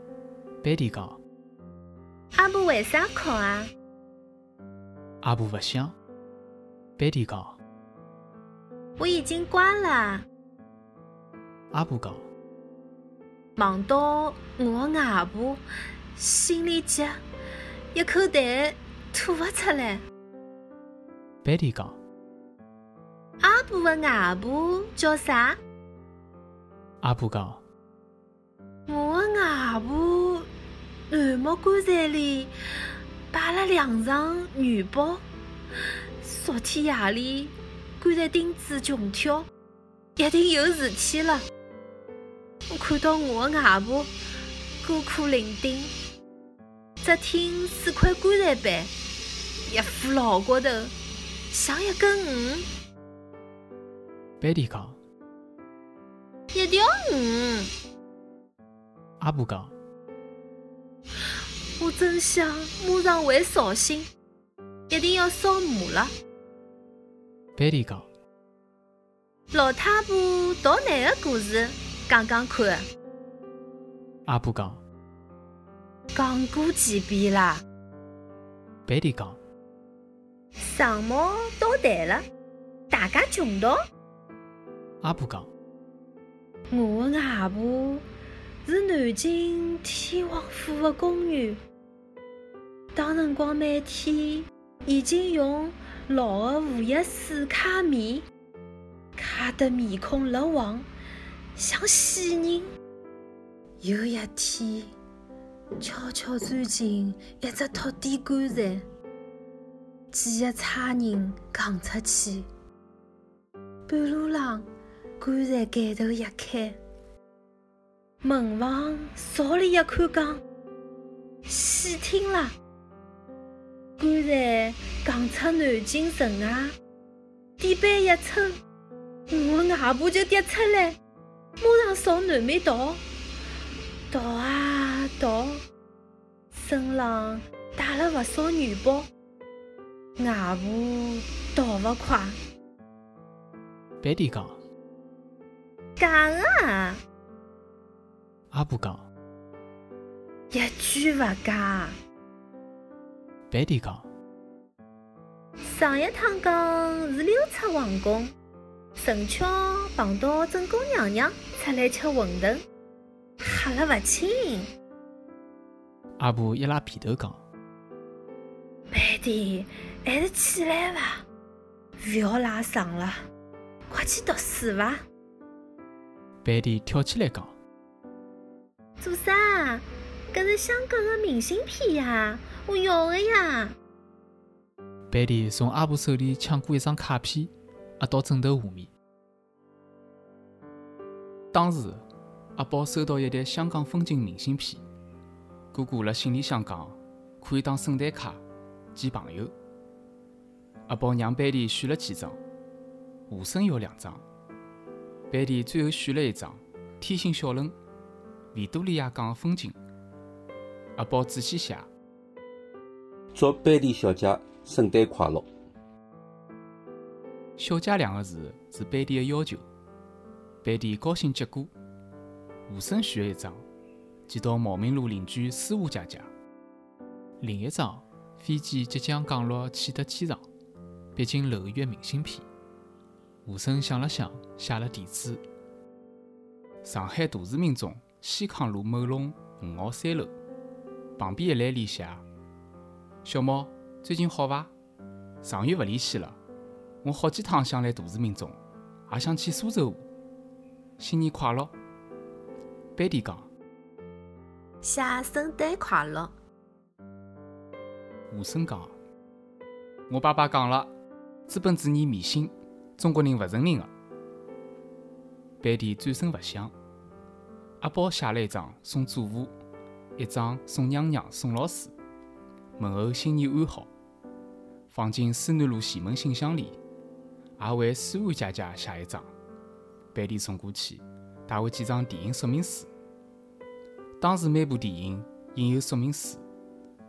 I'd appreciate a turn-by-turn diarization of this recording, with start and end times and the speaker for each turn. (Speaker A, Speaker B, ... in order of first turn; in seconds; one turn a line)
Speaker A: 0.6-1.2
Speaker B: 2.3-3.7
Speaker A: 5.2-6.0
Speaker A: 7.0-7.6
Speaker B: 9.0-10.2
Speaker A: 11.7-12.2
Speaker B: 13.6-15.6
Speaker B: 16.1-17.2
Speaker B: 17.9-20.0
Speaker A: 21.4-22.0
Speaker B: 23.4-25.6
Speaker A: 27.0-27.6
Speaker B: 28.9-30.5
Speaker B: 31.1-32.5
Speaker B: 33.3-35.2
Speaker B: 36.2-39.5
Speaker B: 40.2-41.4
Speaker B: 42.7-44.1
Speaker B: 44.8-45.9
Speaker B: 47.0-50.9
Speaker B: 51.5-52.7
Speaker A: 54.4-55.0
Speaker B: 56.5-57.7
Speaker A: 59.2-59.7
Speaker B: 61.8-64.1
Speaker B: 64.9-66.1
Speaker A: 67.6-68.1
Speaker B: 69.5-72.8
Speaker A: 74.3-74.8
Speaker B: 76.1-77.6
Speaker A: 78.9-79.4
Speaker B: 80.6-82.2
Speaker B: 82.9-83.8
Speaker A: 85.0-85.5
Speaker B: 86.7-88.0
Speaker B: 88.7-91.6
Speaker B: 92.9-98.2
Speaker B: 99.2-100.8
Speaker B: 101.5-102.7
Speaker B: 103.8-104.9
Speaker B: 105.8-108.9
Speaker B: 110.1-112.5
Speaker B: 113.9-114.7
Speaker B: 115.2-116.8
Speaker B: 118.2-120.4
Speaker B: 121.5-122.5
Speaker B: 124.0-126.8
Speaker B: 127.6-128.6
Speaker B: 129.3-131.0
Speaker B: 131.6-133.0
Speaker B: 134.1-135.6
Speaker B: 136.5-139.1
Speaker B: 140.2-142.4
Speaker A: 144.0-144.6
Speaker B: 146.0-147.0
Speaker A: 148.5-149.1
Speaker B: 150.5-151.9
Speaker A: 153.5-154.1
Speaker B: 155.6-158.3
Speaker B: 159.0-162.6
Speaker B: 163.4-164.7
Speaker A: 166.2-167.4
Speaker B: 168.9-171.2
Speaker B: 172.0-173.2
Speaker B: 173.9-175.0
Speaker A: 176.4-177.5
Speaker B: 179.0-183.8
Speaker A: 185.1-188.9
Speaker A: 191.5-192.0
Speaker A: 192.6-194.8
Speaker A: 195.7-198.4
Speaker A: 198.9-199.5
Speaker A: 200.9-202.4
Speaker A: 203.3-204.2
Speaker A: 205.3-207.7
Speaker A: 208.5-209.8
Speaker A: 211.0-211.9
Speaker C: 213.3-215.4
Speaker A: 217.6-219.6
Speaker A: 220.6-221.7
Speaker A: 222.7-223.6
Speaker A: 224.3-226.3
Speaker A: 227.4-230.4
Speaker A: 231.2-232.4
Speaker A: 233.4-235.4
Speaker A: 236.8-240.3
Speaker A: 241.2-242.2
Speaker A: 243.2-244.7
Speaker A: 245.4-246.4
Speaker A: 247.0-250.1
Speaker A: 251.0-251.7
Speaker A: 252.9-253.5
Speaker B: 254.8-256.3
Speaker A: 258.3-258.9
Speaker A: 260.1-260.9
Speaker A: 261.5-263.9
Speaker A: 265.6-266.7
Speaker A: 267.8-269.5
Speaker A: 270.2-271.9
Speaker A: 272.8-273.9
Speaker A: 274.9-276.8
Speaker A: 277.6-279.3
Speaker A: 280.1-282.9
Speaker A: 284.2-286.4